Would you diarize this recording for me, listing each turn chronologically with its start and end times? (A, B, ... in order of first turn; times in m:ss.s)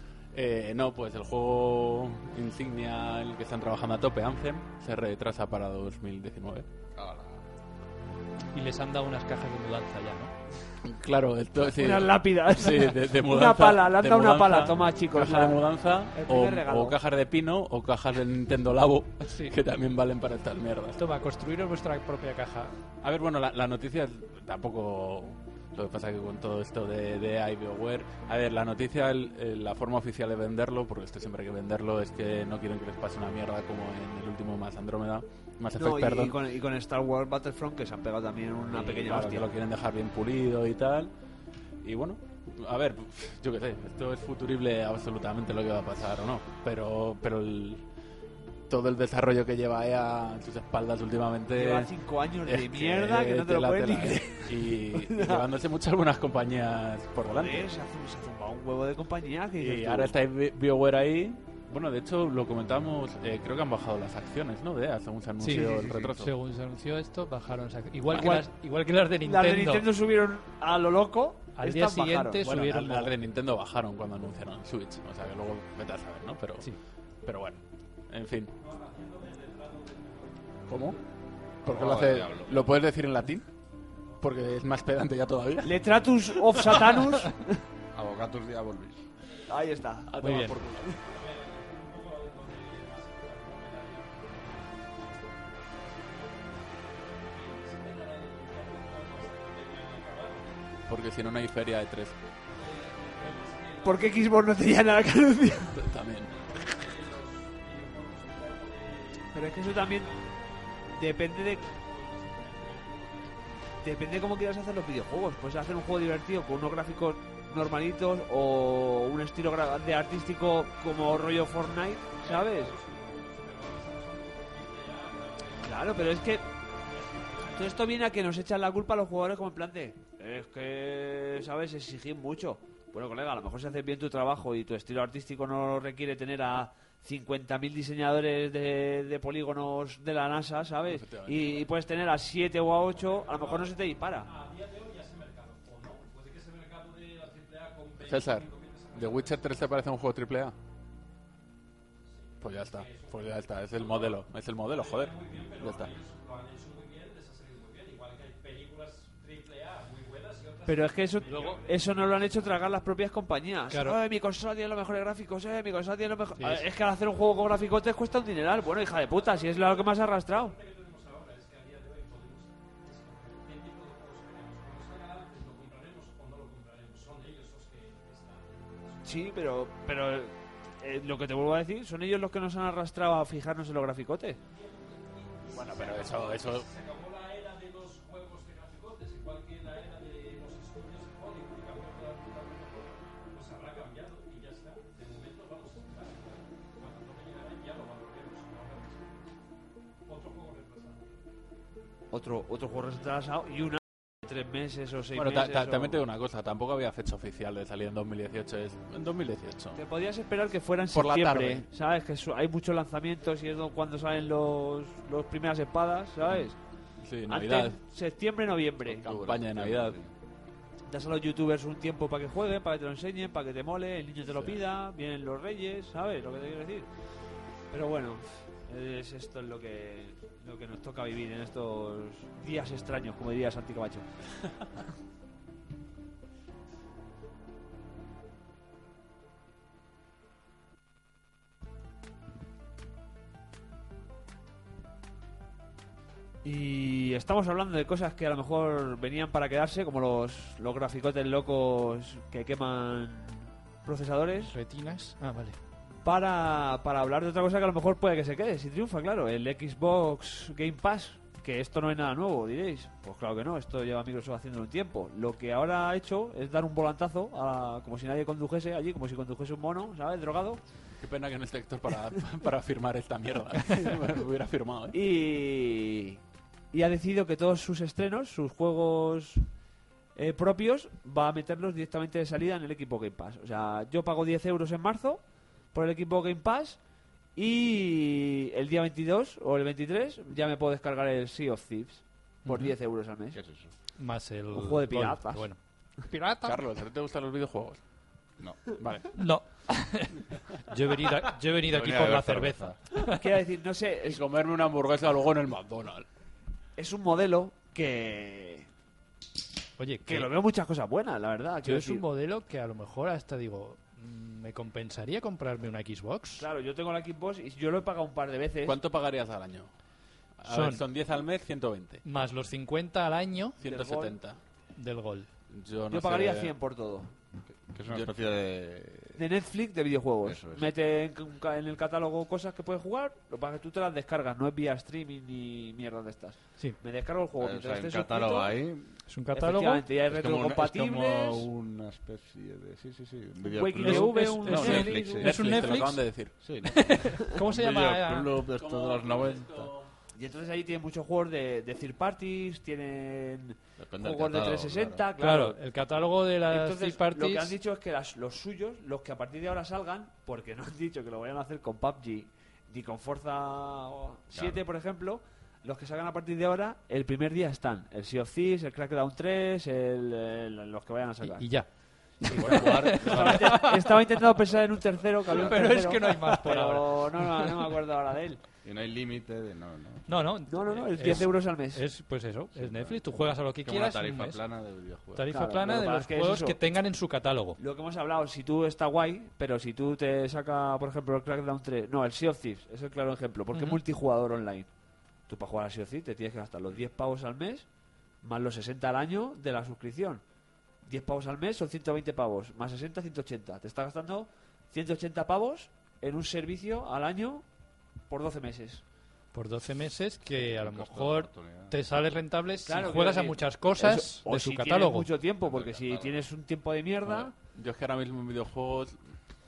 0:00.3-0:06.6 A
0:06.9-0:07.4 B
0:08.5-0:10.3 C
0:10.8-0:21.0 A
0:11.7-0:15.6 D
0:16.1-0:17.0 D
0:19.2-0:19.5 C
0:21.0-0:22.8 C
0:23.0-0:36.4 A
0:35.8-0:39.5 D
0:38.7-0:41.1 A
0:41.8-0:47.8 A
0:48.7-0:51.9 A
0:51.5-0:55.4 D
0:52.4-0:57.7 A
0:57.2-1:00.1 D
0:59.6-1:06.3 A
1:05.4-1:09.9 C
1:05.5-1:06.0 B
1:08.1-1:08.5 D
1:09.2-1:12.5 D
1:11.6-1:13.1 C
1:12.4-1:16.7 A
1:17.2-1:18.5 A
1:18.6-1:21.0 E
1:20.7-1:21.0 A
1:21.6-1:23.5 A
1:21.6-1:22.6 B
1:22.3-1:22.7 E
1:24.2-1:27.0 A
1:25.6-1:27.6 D
1:27.9-1:29.0 B
1:29.5-1:30.1 D
1:30.1-1:31.0 A
1:30.2-1:30.6 C
1:31.0-1:40.6 E
1:40.9-1:42.2 A
1:42.5-1:44.4 E
1:43.8-1:45.8 D
1:45.7-1:46.3 A
1:46.2-1:53.8 E
1:49.3-1:50.1 D
1:51.0-1:51.6 D
1:53.8-2:02.7 D
2:02.1-2:07.8 E
2:05.6-2:06.4 D
2:07.4-2:24.3 D
2:20.8-2:21.7 A
2:22.9-2:29.7 E
2:28.0-2:30.6 A
2:32.1-2:42.6 E
2:32.4-2:35.9 A
2:40.6-2:50.5 D
2:41.3-2:41.6 C
2:43.7-2:44.0 C
2:46.4-2:46.6 C
2:48.6-2:59.6 E
2:59.0-3:04.4 D
3:04.5-3:19.3 E
3:05.5-3:06.7 A
3:20.0-3:21.2 E
3:22.1-3:26.0 D
3:25.1-3:29.8 A
3:29.8-3:36.6 D
3:30.9-3:31.6 A
3:37.0-3:37.8 A
3:37.3-3:39.1 D
3:38.9-3:40.0 A
3:39.1-3:40.1 B
3:40.9-3:46.9 D
3:44.3-3:44.6 A
3:47.7-3:54.0 D
4:06.4-4:14.5 D
4:14.5-4:15.6 C
4:16.0-4:30.6 D
4:31.0-4:35.0 A
4:34.9-4:36.2 D
4:36.7-4:39.4 D
4:40.1-4:46.8 D
4:47.3-4:53.4 D
4:52.4-4:52.7 C
4:53.3-4:53.7 B
4:54.0-4:56.6 C
4:54.5-4:55.4 D
4:56.4-4:57.8 A
4:58.4-4:58.7 B
4:58.8-4:59.1 A
4:59.1-5:03.2 C
5:01.7-5:02.8 B
5:03.1-5:04.2 D
5:04.1-5:06.1 A
5:06.8-5:08.7 D
5:09.8-5:10.3 C
5:10.0-5:12.0 D
5:11.6-5:16.5 C
5:16.4-5:18.8 D
5:18.6-5:19.7 A
5:20.4-5:22.0 A
5:20.4-5:20.8 C
5:22.0-5:23.6 C
5:23.6-5:24.4 A
5:23.6-5:24.1 D
5:24.7-5:25.3 C
5:25.5-5:26.5 A
5:25.9-5:27.1 D
5:27.5-5:29.2 B
5:29.2-5:38.5 D
5:30.2-5:30.8 B
5:37.4-5:38.9 B
5:39.1-5:39.8 C
5:39.3-5:41.4 D
5:40.1-5:45.3 B
5:43.4-5:45.2 D
5:43.8-5:46.0 C
5:44.4-5:46.4 A
5:46.4-5:49.7 B
5:46.7-5:48.4 C
5:48.5-5:49.9 A
5:50.1-5:55.6 D
5:53.8-5:55.0 B
5:55.2-5:57.5 C
5:56.5-6:11.5 D
6:04.3-6:04.6 B
6:11.2-6:11.7 C
6:12.2-6:14.1 C
6:12.2-6:13.6 B
6:12.3-6:18.4 D
6:15.2-6:15.8 B
6:15.3-6:17.6 C
6:18.6-6:20.1 B
6:20.1-6:24.4 C
6:20.5-6:21.8 D
6:22.5-6:25.3 B
6:25.1-6:27.6 C
6:25.3-6:26.6 D
6:27.6-6:34.7 D
6:33.5-6:33.8 C
6:35.3-6:37.6 D
6:38.2-6:40.2 D
6:40.8-6:47.4 D
6:48.1-6:48.8 D
6:49.3-6:55.1 C
6:50.2-6:51.8 B
6:52.6-6:57.3 D
6:55.4-6:56.2 B
6:57.0-6:59.0 A